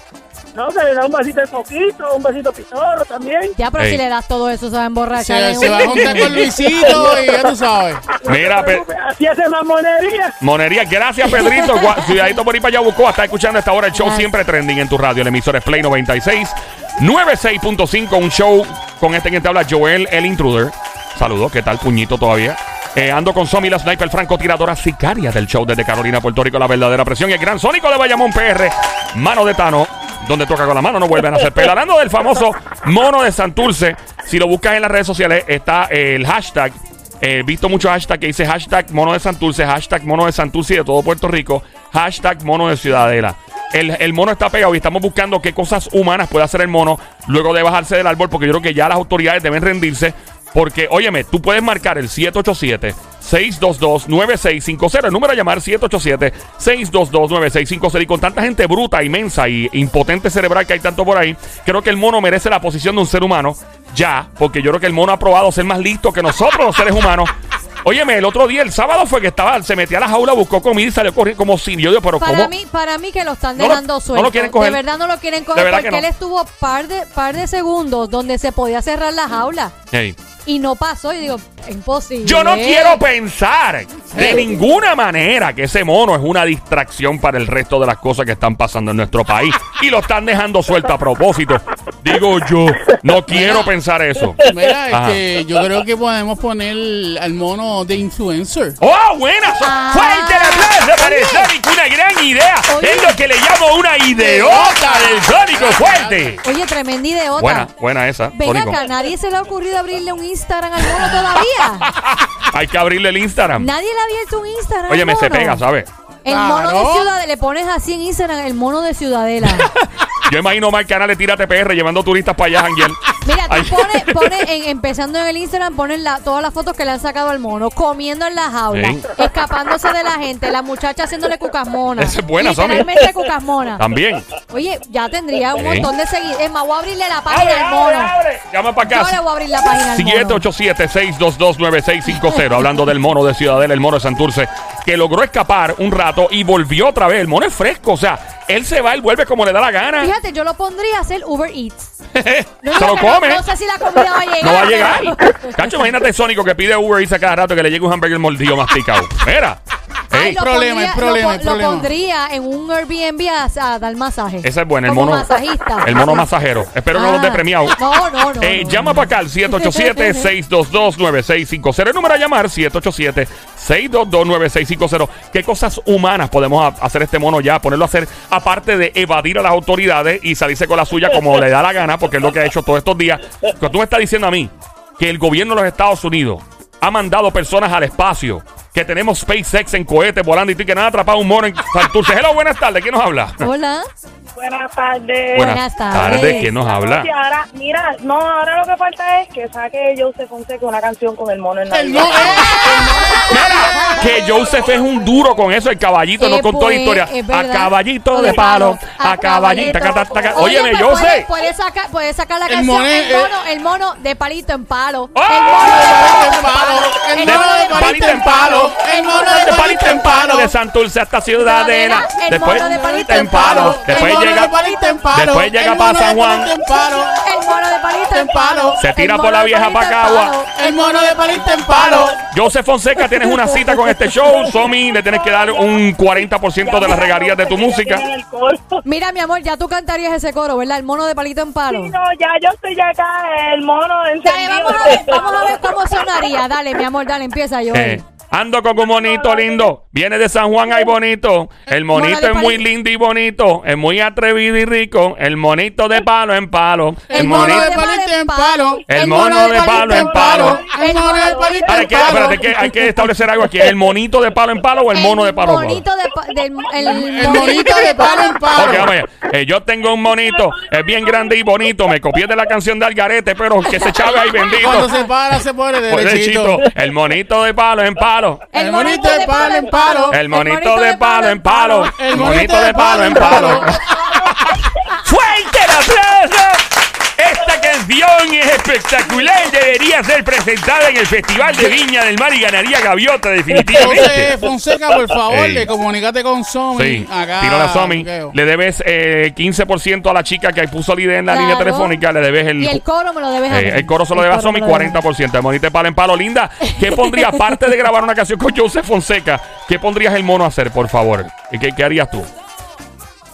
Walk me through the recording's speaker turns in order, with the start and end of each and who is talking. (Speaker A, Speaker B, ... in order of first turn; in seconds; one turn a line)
Speaker A: 0.5-3.5
Speaker B: 3.5-6.5
Speaker C: 5.2-8.1
Speaker D: 6.0-6.3
Speaker A: 6.2-7.4
Speaker A: 8.2-10.3
Speaker D: 8.2-8.8
Speaker D: 10.4-67.3
Speaker B: 13.9-14.3
Speaker D: 67.8-72.5
Speaker B: 72.2-79.7
Speaker D: 73.5-74.8
Speaker D: 75.5-76.0
Speaker D: 79.9-80.2
Speaker B: 80.4-83.0
Speaker D: 82.2-95.2
Speaker C: 84.1-84.4
Speaker C: 94.4-98.8
Speaker D: 98.8-106.4
Speaker B: 99.6-101.5
Speaker B: 102.7-103.2
Speaker C: 104.2-106.4
Speaker B: 106.4-107.7
Speaker D: 107.4-108.8
Speaker B: 108.3-111.9
Speaker D: 111.8-113.7
Speaker B: 113.6-115.6
Speaker D: 114.9-115.9
Speaker B: 116.2-119.7
Speaker C: 116.3-117.1
Speaker D: 119.5-124.4
Speaker B: 123.2-133.8
Speaker D: 128.7-129.1
Speaker D: 132.0-133.0
Speaker D: 133.8-134.3
Speaker B: 134.4-138.1
Speaker D: 135.6-135.9
Speaker D: 137.3-150.1
Speaker B: 138.8-140.4
Speaker B: 150.0-151.9
Speaker D: 152.2-153.4
Speaker B: 152.6-155.6
Speaker D: 154.4-159.6
Speaker B: 160.1-166.3
Speaker C: 160.2-161.9
Speaker D: 164.4-167.8
Speaker B: 166.9-170.3
Speaker D: 168.4-193.4
Speaker B: 193.4-193.8
Speaker E: 194.4-204.0
Speaker D: 195.3-197.1
Speaker B: 195.3-196.5
Speaker C: 201.7-203.2
Speaker B: 202.3-204.1
Speaker D: 203.2-211.3
Speaker B: 206.2-219.8
Speaker C: 212.5-213.3
Speaker D: 215.1-216.0
Speaker C: 215.6-220.5
Speaker D: 217.2-218.7
Speaker D: 219.3-224.5
Speaker B: 221.4-225.0
Speaker C: 222.4-227.2
Speaker D: 225.1-226.5
Speaker B: 227.2-231.1
Speaker C: 228.1-228.8
Speaker D: 228.8-230.3
Speaker C: 230.6-232.2
Speaker D: 232.3-238.1
Speaker E: 234.3-238.8
Speaker B: 238.8-241.9
Speaker E: 241.7-245.7
Speaker B: 244.2-248.0
Speaker D: 247.7-257.8
Speaker E: 248.8-249.7
Speaker B: 251.9-252.6
Speaker C: 257.1-262.5
Speaker B: 257.1-262.6
Speaker D: 258.9-260.6
Speaker E: 259.6-261.9
Speaker D: 261.7-265.8
Speaker B: 264.9-268.6
Speaker C: 266.8-268.9
Speaker E: 267.5-268.3
Speaker D: 268.5-274.9
Speaker B: 273.7-275.0
Speaker C: 274.5-276.6
Speaker D: 275.9-278.5
Speaker B: 278.5-281.9
Speaker C: 278.5-280.2
Speaker D: 280.1-286.6
Speaker C: 281.9-283.8
Speaker D: 287.2-294.4
Speaker C: 293.6-298.4
Speaker D: 295.3-295.7
Speaker D: 296.7-302.8
Speaker B: 301.3-302.0
Speaker B: 302.6-305.0
Speaker D: 303.5-312.3
Speaker B: 306.7-307.4